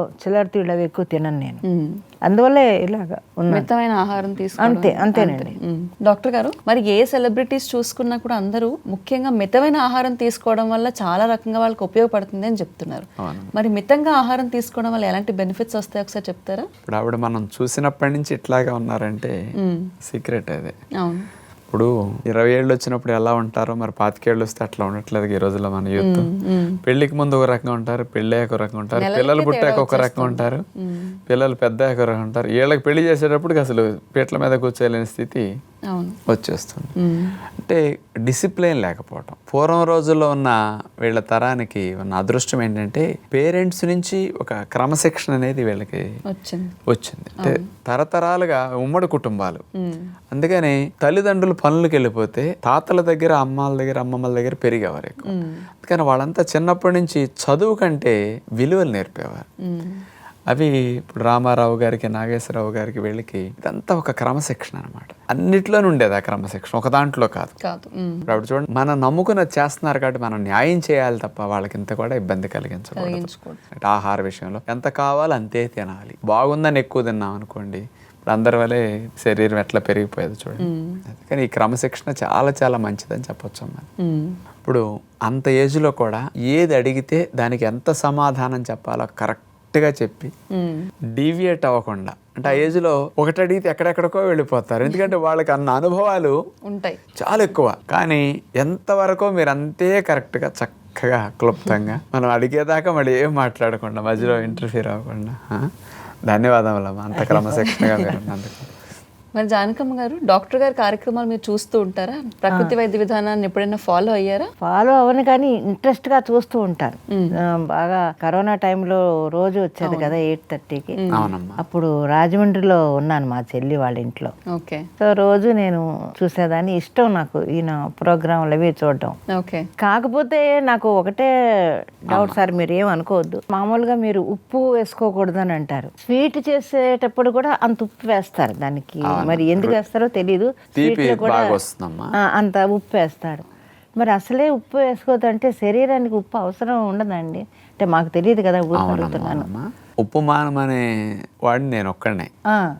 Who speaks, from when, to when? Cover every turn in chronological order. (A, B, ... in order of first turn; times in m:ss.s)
0:00.2-0:01.6 A
0:01.7-0:02.0 B
0:02.3-0:03.7 A
0:03.5-0:16.7 B
0:04.6-0:05.6 A
0:13.2-0:13.5 C
0:16.9-0:19.4 C
0:19.6-0:19.9 B
0:20.0-0:20.7 C
0:21.0-0:21.2 B
0:21.7-0:26.3 C
0:26.0-0:26.8 B
0:26.8-0:30.6 C
0:28.9-0:31.2 B
0:31.3-0:35.4 C
0:35.9-0:36.2 B
0:36.3-0:36.9 C
0:37.0-0:37.3 B
0:37.6-0:46.0 C
0:46.3-0:46.7 B
0:46.9-0:49.6 C
0:47.4-0:47.7 B
0:49.8-0:50.0 B
0:50.3-0:59.4 C
0:55.2-0:55.6 B
0:59.6-1:00.0 B
1:00.5-1:07.5 C
1:07.6-1:08.3 B
1:08.3-1:23.9 C
1:13.0-1:13.6 B
1:20.6-1:21.0 B
1:24.0-1:24.3 B
1:24.6-1:30.3 C
1:30.5-1:30.8 B
1:31.1-1:36.3 C
1:32.4-1:32.7 B
1:36.6-1:37.0 B
1:37.2-1:45.6 C
1:44.2-1:44.6 B
1:46.3-1:48.7 C
1:47.2-1:47.6 A
1:49.3-1:54.5 B
1:54.6-1:57.0 A
1:57.5-2:00.9 A
1:59.8-2:00.1 B
2:01.0-2:01.3 B
2:01.1-2:01.6 C
2:01.6-2:04.3 A
2:04.5-2:04.8 B
2:05.0-2:09.1 A
2:09.3-2:09.6 B
2:09.8-2:11.3 A
2:12.1-2:21.5 A
2:12.1-2:12.4 C
2:19.1-2:19.8 C
2:20.7-2:22.1 C
2:22.2-2:23.4 A
2:24.0-2:29.5 A
2:28.7-2:30.8 C
2:31.5-2:32.3 C